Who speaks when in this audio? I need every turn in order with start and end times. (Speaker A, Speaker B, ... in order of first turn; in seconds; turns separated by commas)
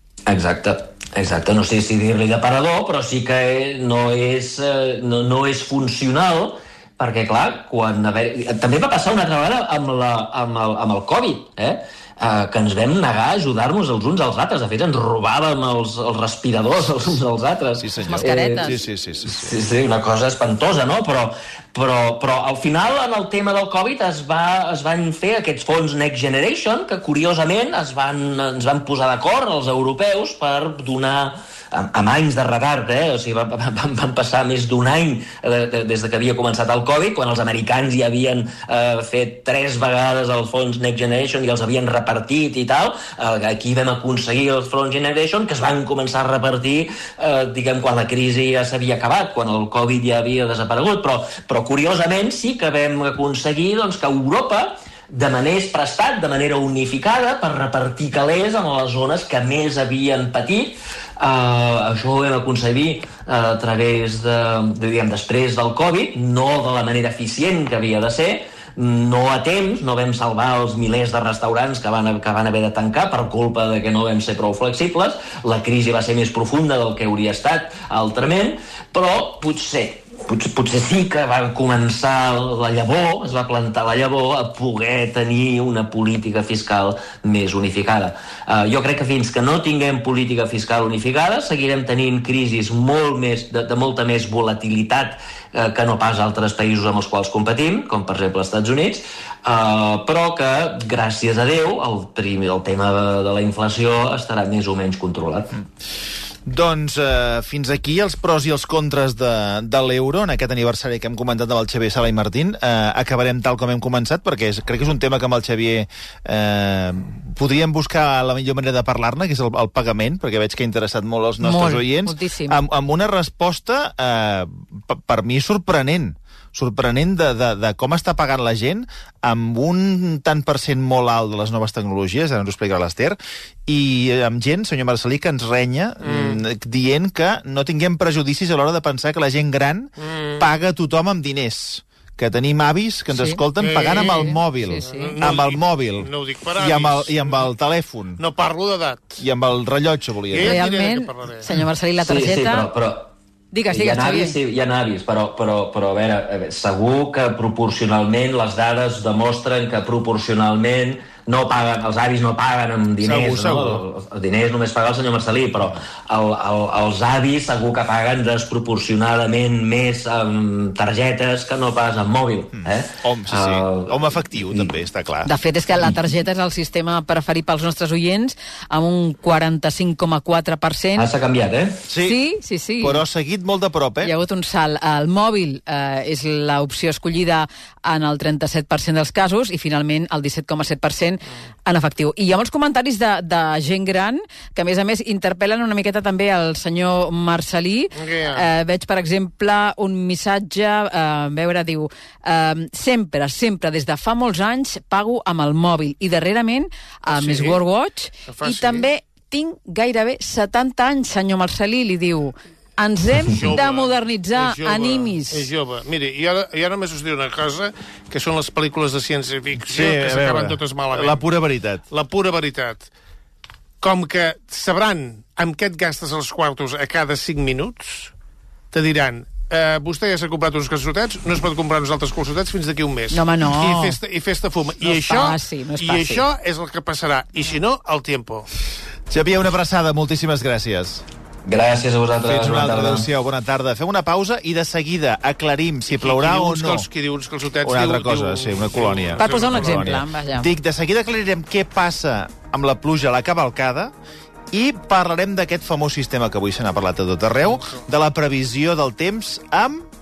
Speaker A: 0.3-105.5, Speaker B: 17.8-19.5, Speaker C: 18.1-18.8, Speaker B: 106.5-148.2, Speaker C: 121.4-122.6, Speaker D: 136.0-136.4, Speaker D: 140.0-140.4, Speaker C: 143.1-145.2, Speaker D: 143.6-147.5, Speaker D: 148.2-149.2, Speaker B: 149.2-150.6, Speaker D: 150.3-151.5, Speaker C: 150.4-152.7, Speaker A: 152.0-153.1, Speaker C: 153.5-154.3, Speaker A: 153.7-174.7, Speaker B: 163.0-163.8, Speaker B: 172.6-175.3, Speaker C: 175.2-181.1, Speaker A: 180.9-181.9, Speaker B: 181.9-182.2, Speaker C: 182.0-183.0, Speaker B: 182.8-184.1, Speaker C: 184.0-215.5, Speaker D: 197.9-198.4, Speaker D: 207.1-207.6, Speaker D: 208.3-208.9, Speaker D: 213.3-221.2, Speaker B: 219.6-221.8, Speaker D: 221.9-222.9, Speaker D: 223.8-228.1, Speaker D: 228.7-238.5, Speaker C: 233.1-234.0, Speaker C: 234.8-236.2, Speaker B: 239.1-241.0, Speaker A: 241.4-243.1, Speaker B: 242.2-246.8, Speaker D: 245.9-249.9, Speaker B: 247.6-253.9, Speaker C: 249.2-250.5, Speaker B: 254.5-259.9